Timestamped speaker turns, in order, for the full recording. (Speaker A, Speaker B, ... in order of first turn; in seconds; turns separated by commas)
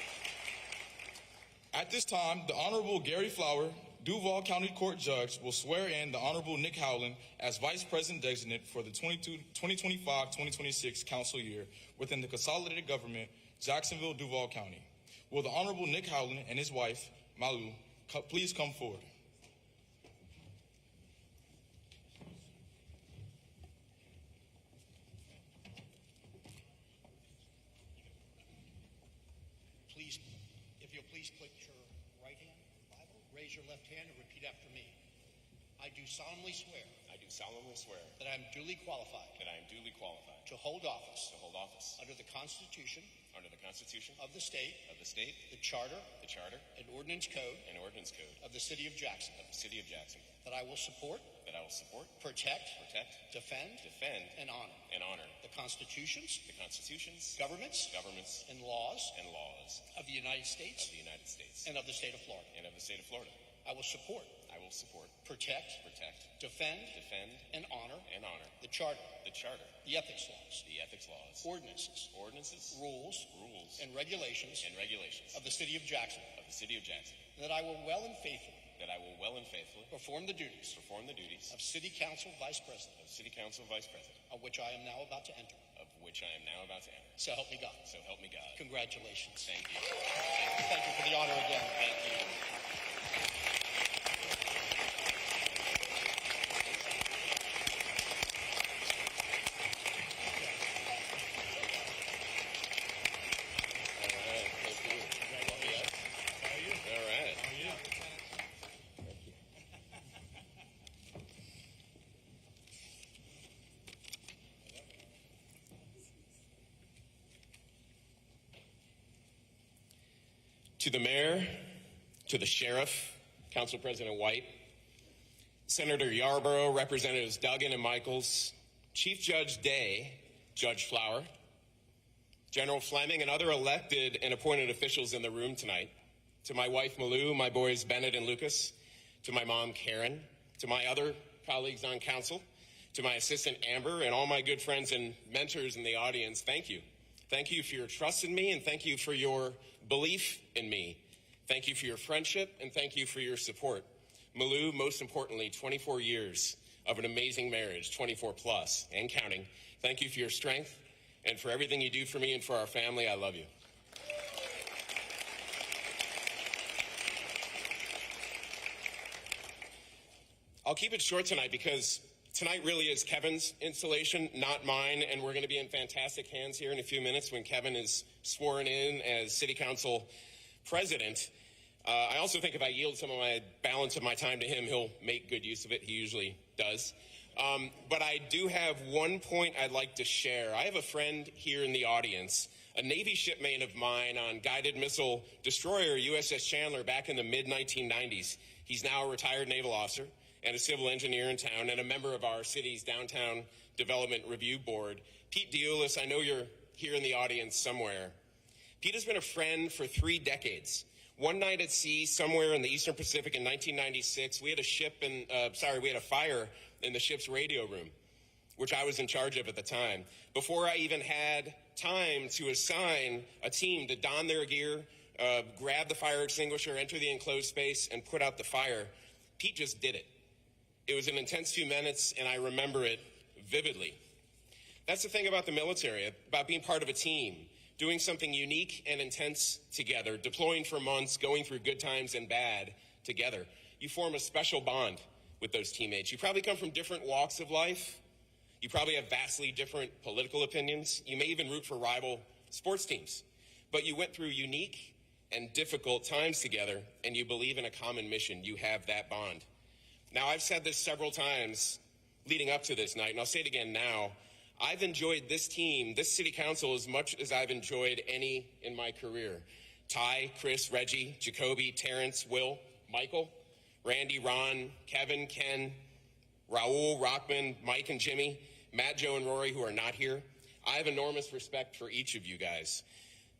Speaker A: 1.7-19.1, Speaker B: 29.9-30.3, Speaker B: 30.8-35.0, Speaker B: 35.8-36.9, Speaker C: 37.1-38.2, Speaker B: 38.2-39.4, Speaker C: 39.4-40.5, Speaker B: 40.5-41.3, Speaker C: 41.3-42.0, Speaker B: 42.0-43.1, Speaker C: 43.3-44.2, Speaker B: 44.2-44.9, Speaker C: 44.9-45.5, Speaker B: 45.5-46.1, Speaker C: 46.1-46.7, Speaker B: 46.8-47.7, Speaker C: 47.6-48.4, Speaker B: 48.4-49.4, Speaker C: 49.4-50.3, Speaker B: 50.4-51.3, Speaker C: 51.4-52.2, Speaker B: 52.2-54.9, Speaker C: 52.8-53.3, Speaker C: 53.8-55.4, Speaker B: 55.4-56.5, Speaker C: 56.5-58.5, Speaker B: 57.4-59.2, Speaker C: 59.1-59.9, Speaker B: 59.9-60.9, Speaker C: 60.8-61.7, Speaker B: 61.6-62.5, Speaker C: 62.5-63.4, Speaker B: 63.6-64.4, Speaker C: 64.5-65.2, Speaker B: 65.2-65.8, Speaker C: 65.8-66.3, Speaker B: 66.4-67.0, Speaker C: 66.9-68.5, Speaker B: 67.5-68.1, Speaker B: 68.6-69.2, Speaker C: 69.2-69.8, Speaker B: 69.8-70.7, Speaker C: 70.6-71.5, Speaker B: 71.4-72.1, Speaker C: 72.1-73.8, Speaker B: 72.7-74.7, Speaker C: 74.6-75.5, Speaker B: 75.3-76.3, Speaker C: 76.3-77.3, Speaker B: 77.3-78.7, Speaker C: 78.8-79.9, Speaker B: 79.9-80.8, Speaker C: 80.7-81.6, Speaker B: 81.5-83.0, Speaker C: 83.0-84.2, Speaker B: 84.3-85.7, Speaker C: 85.8-87.2, Speaker B: 87.2-87.9, Speaker C: 87.8-88.6, Speaker B: 88.6-89.5, Speaker C: 89.5-89.9, Speaker B: 90.5-91.8, Speaker C: 91.8-92.4, Speaker C: 104.0-105.9, Speaker C: 106.7-107.7, Speaker C: 120.8-124.6, Speaker C: 125.7-131.3, Speaker C: 132.5-135.9, Speaker C: 136.4-163.5, Speaker C: 170.7-180.1, Speaker C: 180.6-181.3, Speaker C: 181.8-208.2, Speaker C: 208.8-217.9, Speaker C: 218.6-230.1, Speaker C: 230.9-234.0, Speaker C: 234.9-248.0, Speaker C: 248.6-259.5, Speaker C: 260.1-275.8, Speaker C: 276.5-282.8